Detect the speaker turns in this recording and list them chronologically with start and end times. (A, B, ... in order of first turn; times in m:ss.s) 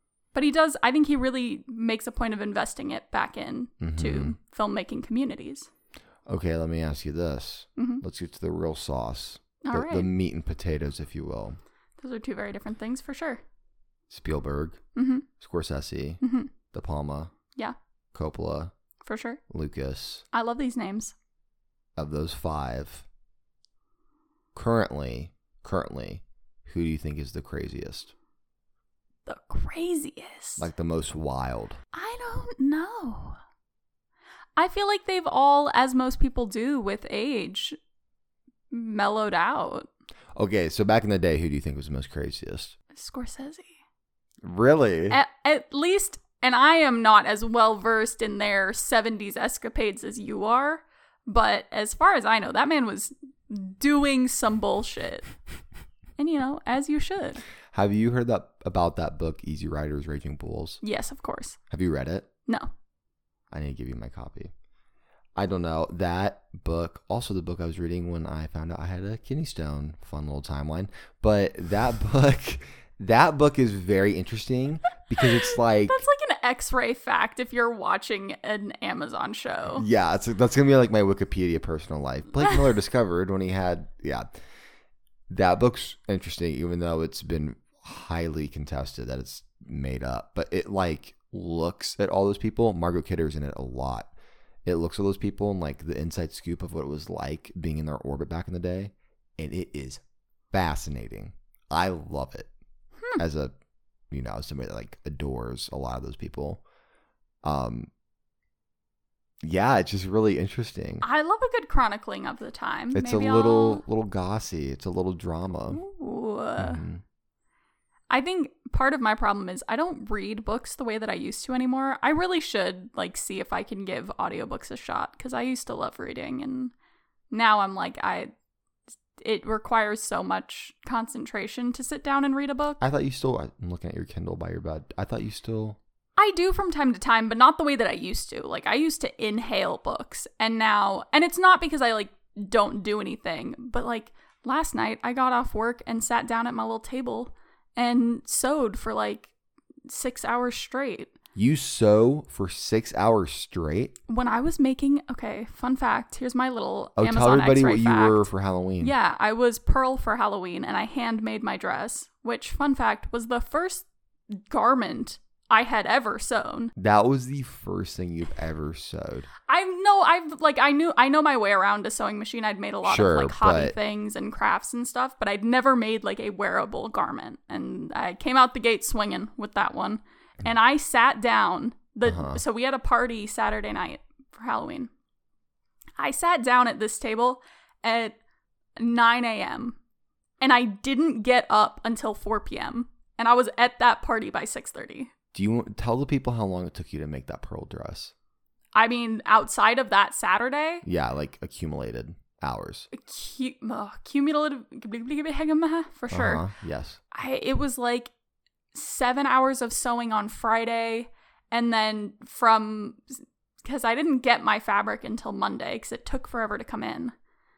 0:00.3-0:05.7 A
0:03.8-0:04.4 B
0:06.3-0:11.6 B
0:07.8-0:08.0 A
0:09.6-0:10.1 A
0:12.0-0:13.4 A
0:14.1-0:14.8 B
0:14.9-0:15.3 A
0:15.4-0:17.3 B
0:16.2-0:16.5 A
0:18.1-0:18.7 B
0:19.0-0:19.4 A
0:19.5-0:20.2 B
0:20.3-0:21.1 A
0:22.0-0:23.0 B
0:24.5-0:28.1 B
0:29.2-0:30.7 A
0:30.6-0:31.8 B
0:31.9-0:33.4 A
0:34.6-0:37.8 A
0:38.7-0:39.9 A
0:40.3-0:42.7 B
0:42.9-0:43.7 A
0:44.4-0:45.2 B
0:45.1-0:55.3 A
0:56.2-0:57.4 A
0:57.7-1:00.8 B
1:00.8-1:01.6 A
1:01.7-1:02.3 B
1:02.4-1:02.7 A
1:03.5-1:04.5 B
1:05.4-1:16.0 B
1:15.5-1:19.8 A
1:19.7-1:24.3 B
1:25.3-1:34.1 B
1:34.6-1:42.5 B
1:43.2-1:43.5 B
1:44.1-1:46.6 B
1:47.4-1:47.9 B
1:49.4-1:51.0 B
1:51.0-1:53.8 A
1:52.9-1:55.8 B
1:55.7-1:56.8 A
1:56.6-1:57.0 B
1:58.1-2:06.7 A
2:07.3-2:08.3 A
2:09.2-2:12.8 A
2:12.8-2:15.8 B
2:16.2-2:29.3 A
2:29.9-2:31.1 A
2:31.3-2:33.9 B
2:34.1-2:38.3 A
2:37.0-2:38.9 B
2:38.8-2:46.7 A
2:46.8-2:49.3 B
2:49.5-3:04.9 A
2:52.8-2:53.7 B
3:02.0-3:02.4 B
3:06.0-3:08.2 A
3:08.8-3:09.8 A
3:10.4-3:15.1 A
3:15.3-3:18.1 B
3:18.7-3:20.8 A
3:20.8-3:22.9 B
3:22.9-3:26.4 A
3:26.1-3:27.0 B
3:27.1-3:28.1 A
3:28.7-3:37.1 A